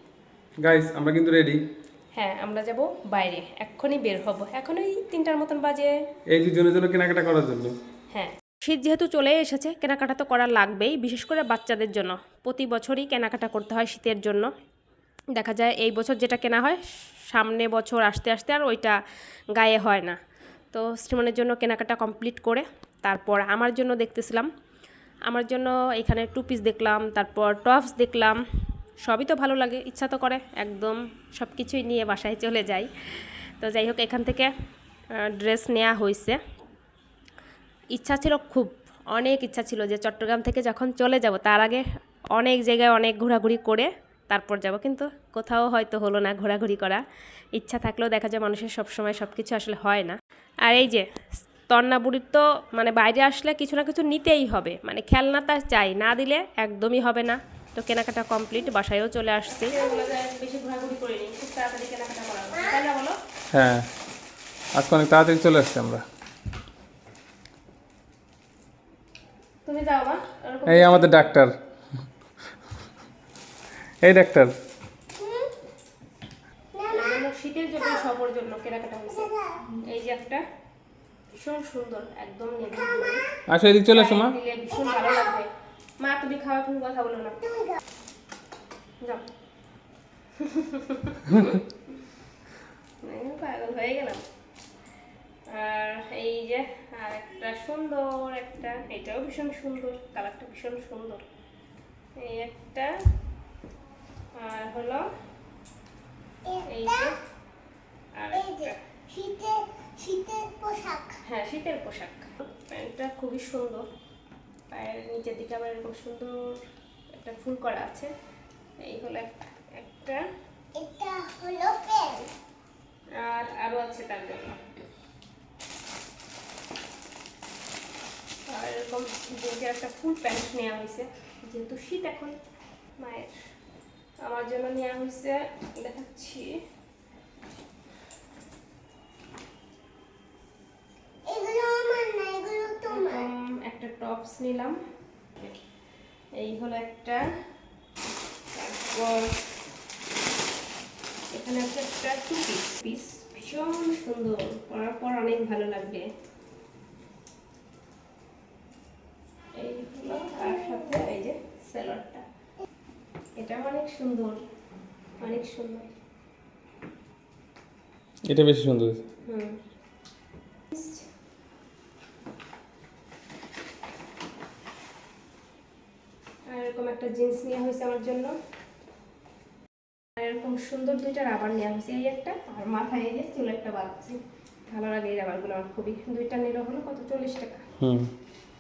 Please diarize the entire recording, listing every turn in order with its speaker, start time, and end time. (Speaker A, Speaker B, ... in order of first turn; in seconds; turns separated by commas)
Speaker A: 0.6-1.6, Speaker B: 2.1-5.9, Speaker A: 6.3-7.8, Speaker B: 8.1-14.5, Speaker B: 15.3-19.0, Speaker B: 19.5-20.2, Speaker B: 20.7-24.5, Speaker B: 25.3-28.4, Speaker B: 29.0-34.5, Speaker B: 35.1-36.4, Speaker B: 37.9-47.0, Speaker B: 47.5-51.1, Speaker B: 51.7-63.2, Speaker C: 59.7-60.1, Speaker A: 63.5-63.9, Speaker A: 64.8-66.0, Speaker B: 69.7-71.3, Speaker A: 70.7-71.5, Speaker A: 74.0-74.5, Speaker C: 75.2-75.6, Speaker C: 76.7-77.2, Speaker B: 76.9-80.4, Speaker C: 79.2-79.6, Speaker B: 81.4-83.3, Speaker A: 83.5-84.3, Speaker B: 83.9-85.5, Speaker B: 86.0-87.5, Speaker B: 90.4-91.9, Speaker B: 93.0-94.2, Speaker B: 95.5-101.2, Speaker B: 102.2-102.9, Speaker B: 104.4-105.0, Speaker C: 106.5-107.1, Speaker B: 106.7-107.2, Speaker B: 108.2-108.8, Speaker C: 108.3-111.2, Speaker B: 111.2-113.8, Speaker B: 114.7-116.6, Speaker B: 117.1-118.1, Speaker B: 118.8-120.2, Speaker C: 120.8-122.3, Speaker B: 123.2-124.6, Speaker B: 128.5-132.3, Speaker B: 133.0-133.3, Speaker B: 134.2-136.5, Speaker C: 141.3-143.3, Speaker B: 142.9-144.8, Speaker B: 146.4-147.2, Speaker B: 148.5-149.4, Speaker B: 151.3-156.1, Speaker B: 159.6-162.2, Speaker B: 163.4-164.4, Speaker B: 165.2-165.9, Speaker A: 168.3-169.0, Speaker B: 169.2-169.6, Speaker B: 170.7-171.1, Speaker B: 176.5-178.3, Speaker B: 180.2-184.2, Speaker B: 184.7-187.6, Speaker A: 187.8-188.1